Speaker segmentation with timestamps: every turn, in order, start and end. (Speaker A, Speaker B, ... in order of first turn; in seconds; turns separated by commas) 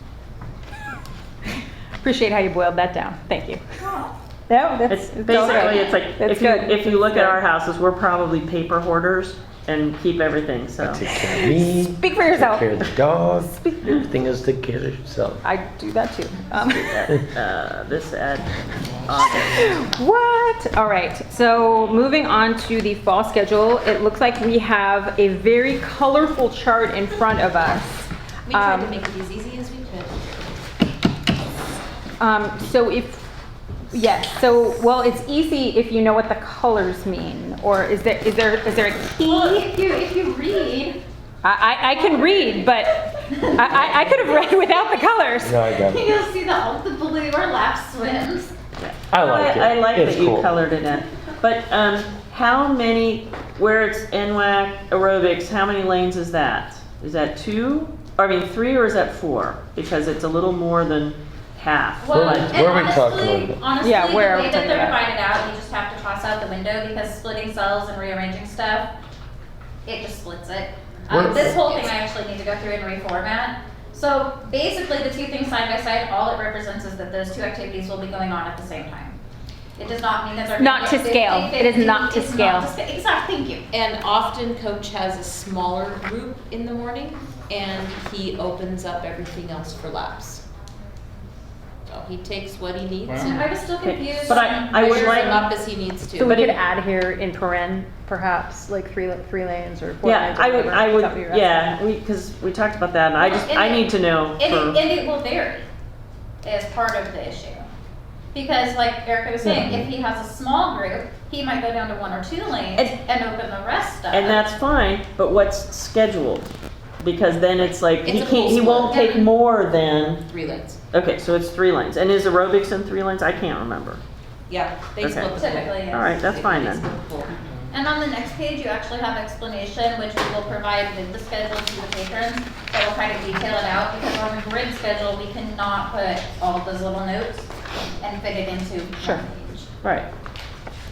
Speaker A: 2.0-3.6, Speaker B: 3.8-4.1, Speaker A: 4.5-7.4, Speaker C: 4.9-11.1, Speaker B: 5.6-6.0, Speaker D: 10.8-15.4, Speaker A: 11.2-14.0, Speaker A: 15.4-17.1, Speaker C: 16.6-19.6, Speaker A: 19.4-28.9, Speaker E: 28.5-30.4, Speaker A: 32.2-33.2, Speaker A: 33.9-39.7, Speaker B: 39.2-41.0, Speaker A: 41.4-45.6, Speaker B: 42.0-45.0, Speaker D: 45.4-46.1, Speaker B: 45.6-48.5, Speaker C: 48.8-62.6, Speaker D: 49.1-50.5, Speaker B: 62.0-68.9, Speaker D: 62.1-63.6, Speaker A: 63.8-65.0, Speaker B: 69.8-79.2, Speaker D: 71.1-71.6, Speaker B: 79.8-83.6, Speaker A: 80.6-82.7, Speaker E: 83.7-90.4, Speaker E: 91.9-93.5, Speaker B: 93.1-95.5, Speaker C: 93.8-95.5, Speaker E: 94.4-96.5, Speaker A: 96.2-101.6, Speaker C: 96.3-96.5, Speaker C: 100.0-104.8, Speaker B: 103.2-105.7, Speaker B: 106.4-107.7, Speaker B: 108.3-114.5, Speaker C: 114.1-120.2, Speaker E: 118.0-119.0, Speaker B: 118.8-119.3, Speaker E: 120.2-120.8, Speaker C: 120.9-124.0, Speaker E: 124.5-127.3, Speaker C: 125.0-125.3, Speaker B: 125.4-126.2, Speaker C: 125.9-126.8, Speaker B: 127.7-137.5, Speaker B: 138.0-139.7, Speaker A: 139.0-139.2, Speaker C: 139.8-140.1